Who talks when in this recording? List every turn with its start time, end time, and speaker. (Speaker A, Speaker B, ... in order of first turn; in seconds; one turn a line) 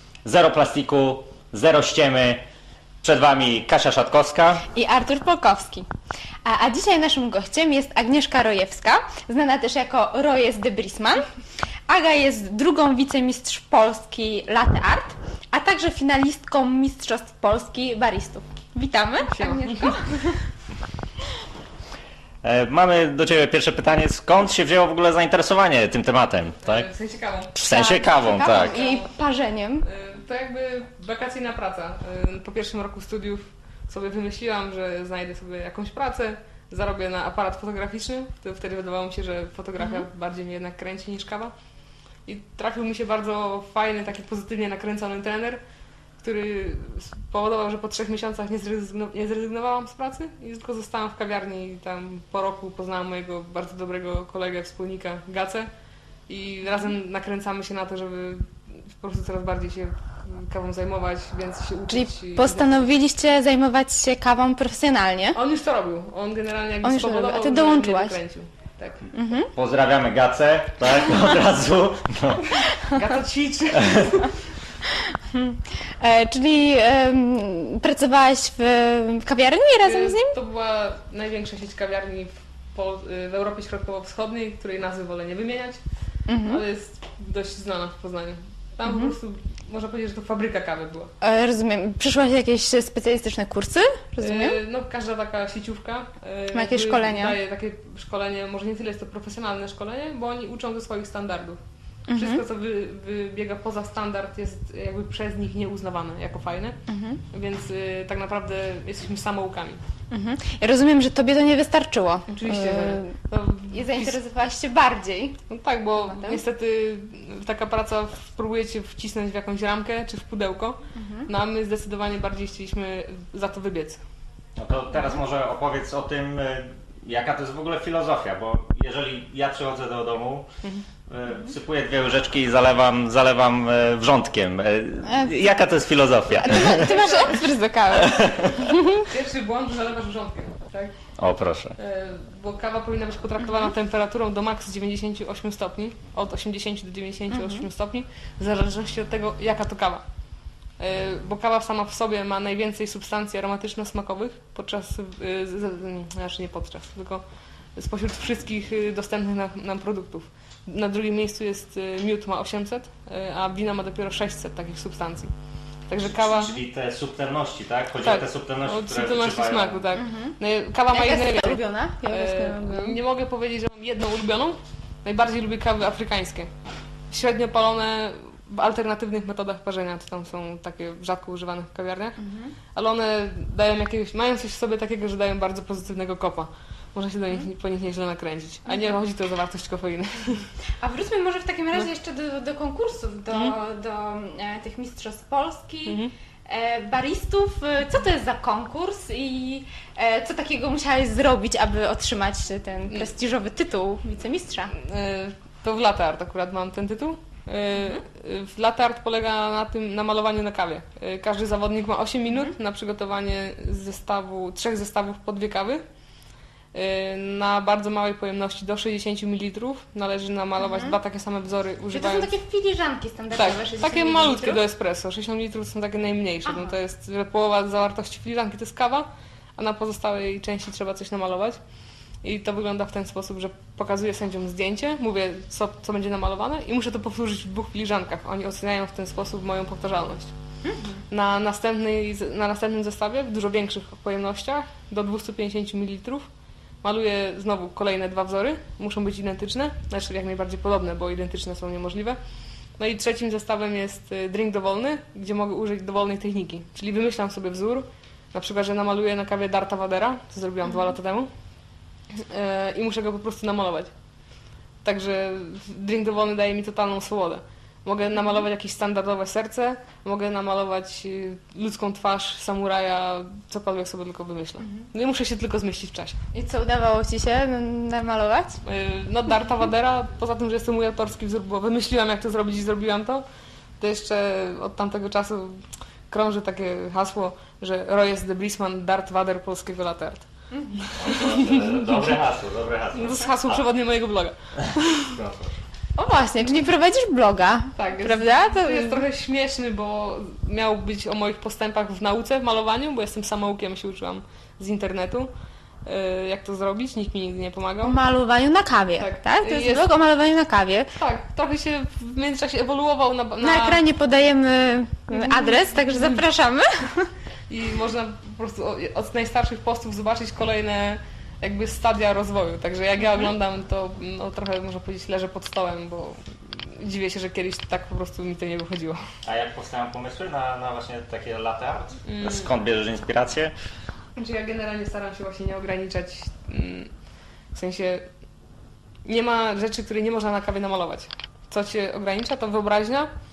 Speaker A: 0.2-2.5
Speaker A: 3.0-4.7
Speaker B: 4.7-5.9
Speaker B: 6.4-11.2
Speaker B: 11.9-20.4
Speaker C: 19.3-20.0
Speaker A: 22.4-26.9
Speaker C: 26.6-27.6
Speaker A: 27.6-28.8
Speaker B: 27.7-29.9
Speaker C: 28.5-29.1
Speaker C: 29.8-41.5
Speaker B: 39.8-40.1
Speaker C: 42.3-45.6
Speaker C: 46.2-55.7
Speaker C: 56.3-62.9
Speaker B: 61.9-65.4
Speaker C: 65.3-69.1
Speaker B: 66.8-68.2
Speaker B: 69.1-69.5
Speaker A: 69.5-72.6
Speaker C: 72.8-74.4
Speaker B: 75.0-80.4
Speaker C: 79.8-85.8
Speaker B: 86.3-86.6
Speaker C: 86.4-91.1
Speaker B: 88.8-89.1
Speaker B: 91.2-94.6
Speaker C: 94.2-101.6
Speaker B: 96.5-97.4
Speaker B: 102.1-102.4
Speaker C: 102.1-106.8
Speaker B: 106.9-107.2
Speaker C: 107.3-109.8
Speaker B: 110.1-113.2
Speaker C: 112.3-114.2
Speaker B: 113.7-115.4
Speaker C: 115.5-124.0
Speaker B: 116.0-116.4
Speaker B: 121.0-121.3
Speaker A: 124.6-130.5
Speaker A: 131.1-137.2
Speaker B: 135.0-135.4
Speaker B: 136.3-139.1
Speaker C: 136.7-137.4
Speaker A: 137.9-138.6
Speaker C: 138.9-140.9
Speaker A: 141.2-141.8
Speaker C: 141.8-150.0
Speaker B: 143.4-143.7
Speaker B: 147.3-147.7
Speaker C: 150.8-157.2
Speaker C: 157.8-165.3
Speaker C: 165.9-166.6
Speaker A: 166.1-169.9
Speaker C: 168.0-176.5
Speaker B: 169.9-170.4
Speaker B: 170.9-173.0
Speaker C: 177.1-182.2
Speaker B: 182.2-182.5
Speaker C: 182.7-190.5
Speaker B: 188.7-188.9
Speaker B: 190.8-204.7
Speaker C: 195.9-196.1
Speaker C: 204.7-215.8
Speaker B: 207.8-208.0
Speaker C: 216.7-222.3
Speaker B: 220.6-221.0
Speaker B: 221.9-224.6
Speaker C: 223.4-231.6
Speaker B: 226.5-226.8
Speaker C: 232.2-240.3
Speaker B: 240.6-241.0
Speaker C: 241.1-246.3
Speaker C: 246.8-252.2
Speaker C: 252.8-261.3
Speaker C: 262.1-263.9
Speaker C: 264.8-276.2
Speaker B: 276.3-278.6
Speaker C: 278.6-283.2
Speaker C: 283.8-290.3
Speaker B: 290.5-290.8
Speaker C: 290.8-291.6
Speaker A: 291.0-293.6
Speaker C: 292.9-295.1
Speaker A: 294.6-295.6
Speaker B: 296.0-299.0
Speaker C: 297.8-305.3
Speaker C: 305.9-308.0
Speaker B: 307.8-310.9
Speaker C: 309.0-309.9
Speaker C: 311.0-313.8
Speaker B: 313.4-317.1
Speaker C: 315.1-316.2
Speaker C: 317.5-329.0
Speaker A: 329.2-333.5
Speaker C: 332.1-332.5
Speaker C: 334.2-336.9
Speaker C: 337.5-338.1
Speaker C: 339.1-343.1